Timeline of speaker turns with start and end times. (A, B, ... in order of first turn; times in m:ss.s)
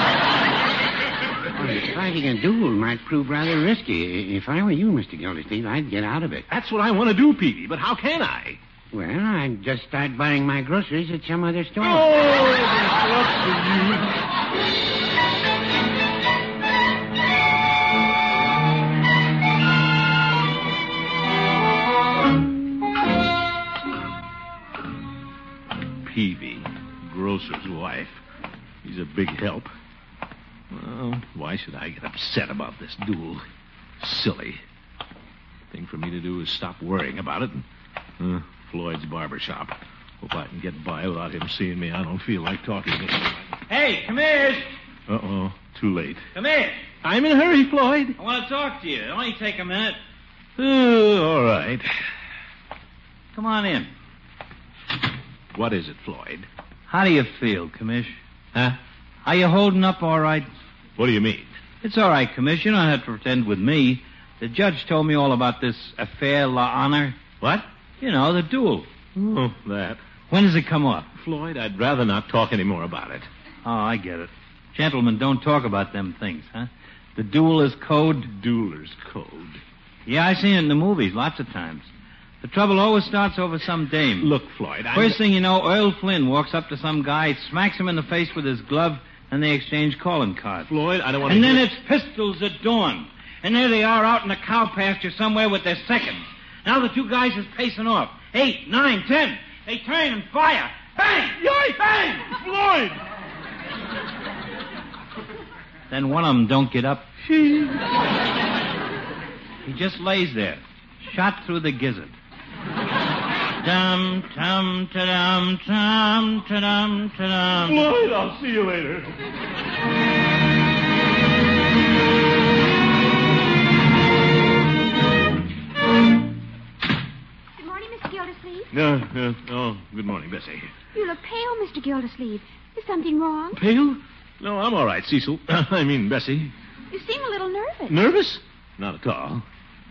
0:01.6-0:06.5 A
0:06.5-0:08.6 B
0:08.9-0:12.1 A
0:11.8-0:14.1 B
0:26.0-0:28.2 B
0:28.8-0:29.7 B
0:30.7-0:33.4 B
0:34.0-0:34.6 B
0:35.7-0:37.6 B
0:38.2-0:43.5 B
0:43.7-0:44.7 C
0:45.1-0:46.3 B
0:46.3-0:46.8 C
0:47.0-0:48.2 B
0:48.2-0:50.0 C
0:50.6-0:51.9 B
0:53.4-0:53.9 C
0:55.5-0:56.5 B
0:56.9-0:58.2 C
0:59.2-1:00.5 C
1:01.0-1:01.5 B
1:01.8-1:07.3 C
1:07.4-1:07.7 B
1:08.0-1:08.9 C
1:09.2-1:10.0 B
1:10.3-1:11.1 C
1:11.2-1:13.3 B
1:13.6-1:18.3 C
1:18.2-1:19.6 B
1:20.1-1:21.9 C
1:22.4-1:24.3 C
1:24.2-1:25.2 B
1:24.9-1:30.7 C
1:30.7-1:31.6 B
1:31.3-1:41.3 C
1:41.3-1:43.0 B
1:45.9-1:47.1 C
1:47.2-1:47.8 B
1:49.6-1:52.1 C
1:53.6-1:57.8 C
1:57.6-1:59.1 B
2:07.6-2:08.7 D
2:08.7-2:10.7 B
2:10.9-2:13.6 D
2:13.5-2:16.5 B
2:16.9-2:18.0 D
2:17.9-2:19.4 B